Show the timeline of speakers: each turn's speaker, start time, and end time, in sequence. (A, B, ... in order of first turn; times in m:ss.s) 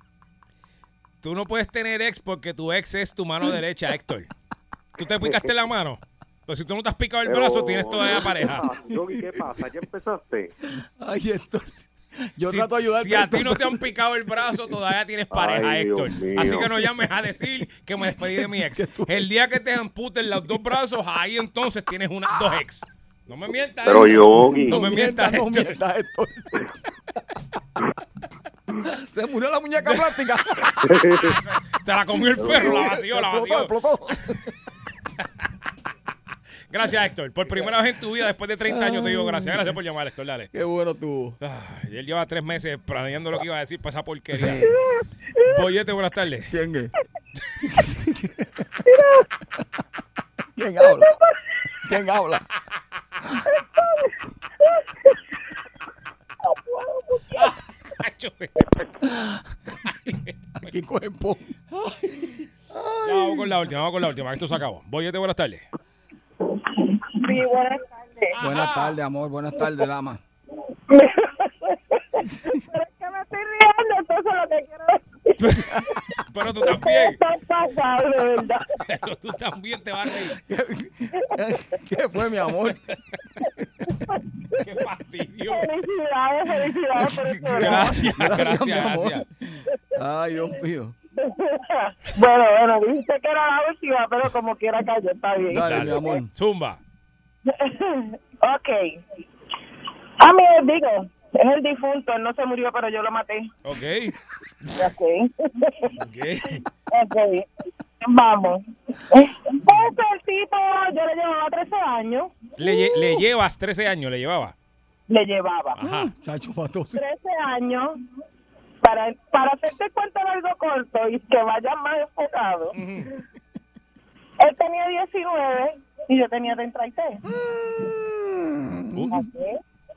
0:01.2-0:04.3 A
0:05.0-0:08.6 A
0:05.0-0:05.5 B
0:07.2-0:10.5 B
0:08.3-0:09.5 C
0:10.7-0:13.8 C
0:12.4-0:25.8 A
0:15.3-0:17.0 B
0:18.2-0:19.3 C
0:22.3-0:22.6 C
0:23.8-0:24.8 B
0:24.7-0:27.2 C
0:28.8-0:31.4 C
0:29.8-0:30.2 A
0:30.8-0:31.2 B
0:31.8-0:33.7 A
0:32.4-0:34.4 C
0:36.7-0:40.5 A
0:38.6-0:39.7 C
0:40.5-0:41.4 C
0:41.4-0:44.6 A
0:44.3-0:44.7 C
0:45.5-0:46.5 A
0:46.5-0:46.9 C
0:47.6-0:48.5 C
0:50.6-0:51.2 C
0:51.8-0:52.4 C
0:57.3-0:58.9 A
0:59.1-0:59.4 C
0:59.9-1:00.3 A
1:00.6-1:01.6 C
1:02.7-1:03.5 C
1:03.0-1:05.6 A
1:06.8-1:08.4 D
1:08.3-1:09.0 A
1:08.4-1:10.2 C
1:10.9-1:16.0 D
1:12.2-1:12.6 C
1:15.4-1:15.7 A
1:15.6-1:16.0 C
1:16.3-1:17.2 A
1:16.6-1:18.7 D
1:18.8-1:20.4 A
1:20.4-1:22.8 C
1:21.1-1:21.4 D
1:23.4-1:23.8 C
1:23.4-1:24.8 D
1:24.6-1:25.7 A
1:25.4-1:28.2 D
1:27.0-1:29.2 C
1:27.5-1:29.2 A
1:29.9-1:30.9 C
1:31.2-1:35.7 D
1:35.5-1:36.3 C
1:35.6-1:36.8 A
1:37.4-1:39.0 D
1:40.2-1:43.5 D
1:43.6-1:44.1 A
1:44.8-1:45.9 D
1:46.0-1:46.6 A
1:46.9-1:47.4 D
1:48.0-1:53.2 D
1:52.6-1:54.5 A
1:55.1-1:55.8 D
1:55.8-1:56.1 A
1:55.8-1:57.0 C
1:57.0-1:57.9 D
1:58.8-2:02.7 D
2:02.7-2:03.1 A
2:04.4-2:07.2 D
2:07.3-2:09.0 C
2:08.9-2:09.2 A
2:09.1-2:09.6 D